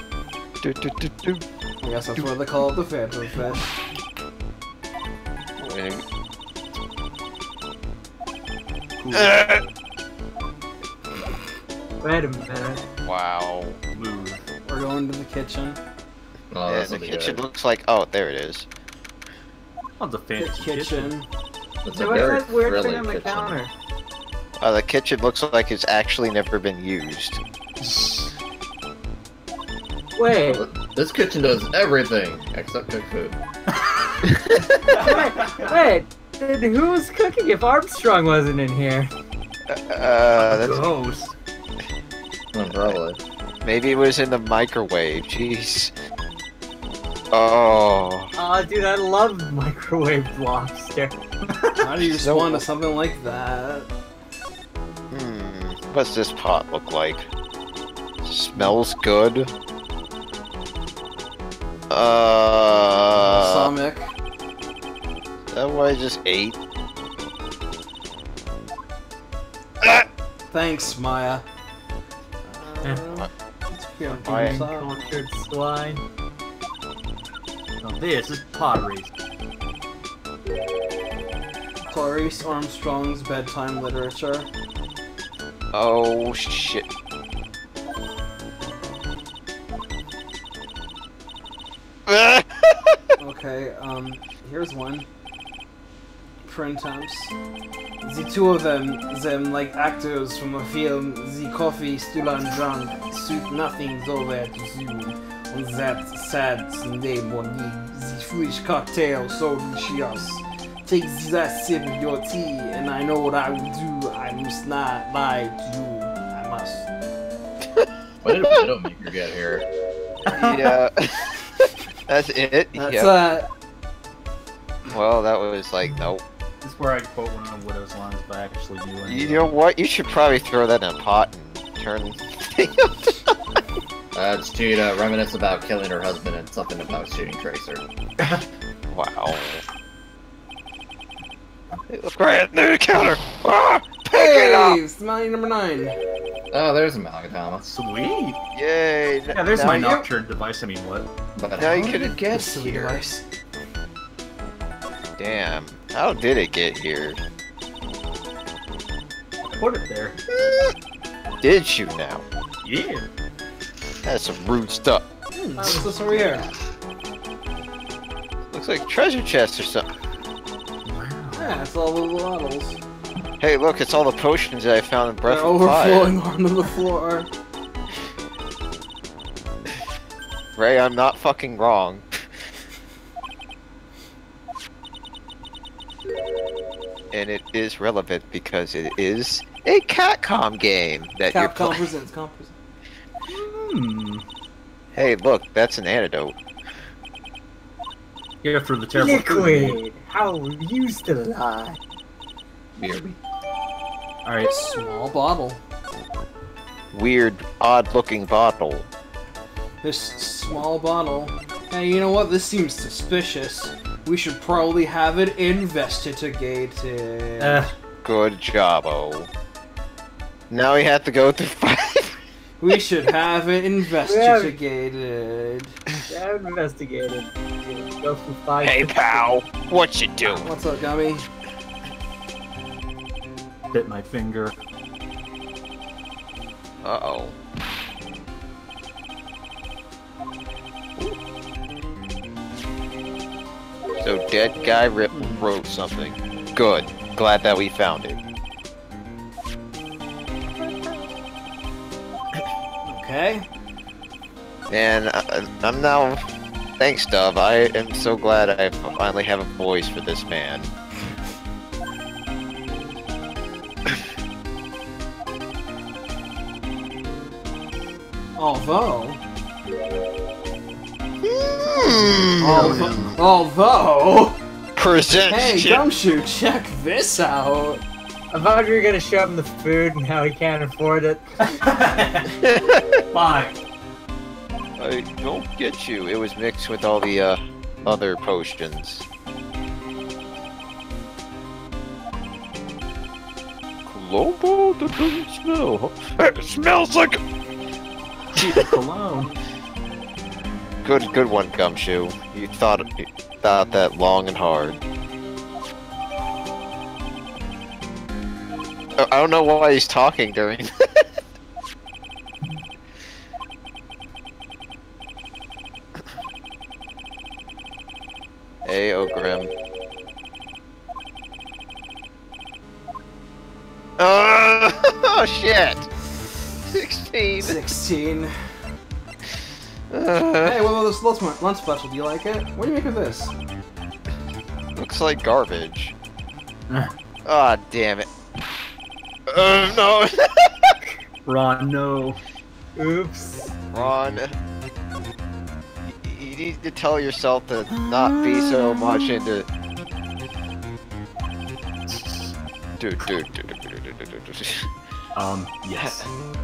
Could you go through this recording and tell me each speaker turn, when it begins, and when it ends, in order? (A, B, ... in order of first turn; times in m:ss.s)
0:00.6-0:01.4 A
0:01.8-0:03.8 B
0:05.6-0:06.0 A
0:09.0-0:09.4 C
0:09.1-0:09.6 A
0:12.0-0:12.8 D
0:13.0-0:13.8 A
0:13.9-0:14.4 C
0:14.6-0:15.8 B
0:16.5-0:17.4 E
0:16.7-0:18.7 A
0:20.0-0:21.1 C
0:20.4-0:21.3 B
0:21.8-0:23.6 E
0:21.9-0:23.7 D
0:24.6-0:27.4 A
0:27.8-0:28.3 C
0:30.2-0:30.6 D
0:30.4-0:33.4 E
0:33.7-0:35.8 C
0:34.9-0:39.1 D
0:39.7-0:40.8 A
0:40.4-0:41.3 C
0:42.5-0:43.2 E
0:43.6-0:45.9 A
0:47.3-0:48.3 A
0:48.4-0:51.2 D
0:51.4-0:51.8 C
0:51.8-0:53.9 B
0:52.0-0:52.6 A
0:55.1-0:57.2 A
0:58.2-0:59.5 A
1:01.9-1:03.7 A
1:03.2-1:04.1 B
1:05.5-1:06.6 A
1:09.8-1:10.0 A
1:10.5-1:11.4 B
1:12.4-1:15.2 B
1:14.1-1:16.0 D
1:14.2-1:14.6 A
1:17.8-1:19.1 C
1:21.9-1:24.5 B
1:25.7-1:26.9 A
1:32.1-1:33.0 A
1:33.2-1:35.1 B
1:36.4-1:37.3 B
1:38.0-1:56.8 B
1:58.2-1:59.7 E
2:00.2-2:00.8 C
2:00.3-2:01.3 A
2:02.1-2:03.1 A
2:02.8-2:03.5 B
2:04.9-2:06.2 A
2:06.6-2:09.5 C
2:09.0-2:13.3 A
2:14.1-2:17.8 E
2:18.9-2:19.6 A
2:21.9-2:24.8 A
2:24.1-2:26.0 B
2:26.5-2:27.7 E
2:27.7-2:28.4 C
2:28.5-2:29.7 A
2:29.3-2:31.1 C
2:29.5-2:30.1 B
2:31.4-2:32.0 E
2:31.6-2:33.0 A
2:31.6-2:33.2 B
2:35.2-2:37.2 A
2:39.4-2:40.2 C
2:40.3-2:40.7 A
2:41.4-2:42.2 A
2:42.6-2:43.0 C
2:44.0-2:45.0 A
2:45.3-2:46.4 B
2:45.6-2:46.2 D
2:46.1-2:46.7 E
2:48.5-2:49.9 A
2:50.8-2:51.6 C
2:51.3-2:52.8 B
2:53.4-2:56.1 A
2:55.2-2:57.3 B
3:00.6-3:02.3 A
3:07.1-3:11.8 A
3:11.3-3:12.5 B
3:13.3-3:14.2 C
3:14.9-3:16.4 A
3:18.4-3:19.8 C
3:18.9-3:21.8 D
3:22.8-3:23.2 E
3:24.2-3:24.5 C
3:24.4-3:25.6 B
3:26.9-3:28.9 A
3:29.8-3:37.7 B
3:37.4-3:37.7 D
3:38.0-3:39.3 A
3:40.5-3:42.2 A
3:42.6-3:45.8 B
3:44.0-3:44.6 D
3:46.1-3:49.2 D
3:48.6-3:50.5 A
3:50.3-3:51.3 B
3:53.7-3:54.6 C
3:56.8-3:57.3 A
4:04.0-4:08.2 A
4:05.1-4:05.5 B
4:12.8-4:13.4 B
4:14.7-4:16.2 A
4:16.8-4:20.7 A
4:28.4-4:29.2 B
4:31.2-4:33.0 A
4:32.4-4:34.4 B
4:32.8-4:33.1 C
4:34.8-4:35.8 A
4:35.3-4:37.8 B
4:38.3-4:41.3 D
4:41.5-4:42.3 C
4:42.4-4:43.0 A
4:43.1-4:43.5 C
4:44.8-4:49.0 A
4:53.9-4:57.2 A
4:58.3-4:59.3 C
4:58.4-4:58.7 A
5:00.8-5:04.8 A
5:09.0-5:11.0 A
5:18.6-5:19.5 A
5:24.0-5:25.9 A
5:26.6-5:27.6 A
5:27.4-5:28.3 B
5:29.9-5:30.7 A
5:30.4-5:33.3 B
5:34.8-5:35.9 A
5:37.2-5:38.0 A
5:39.3-5:40.8 A
5:41.2-5:42.2 C
5:42.8-5:43.5 D
5:43.7-5:44.3 A
5:45.9-5:49.5 A
5:51.9-5:52.3 C
5:52.8-5:54.7 A
5:55.2-5:56.1 C
5:55.8-5:56.0 A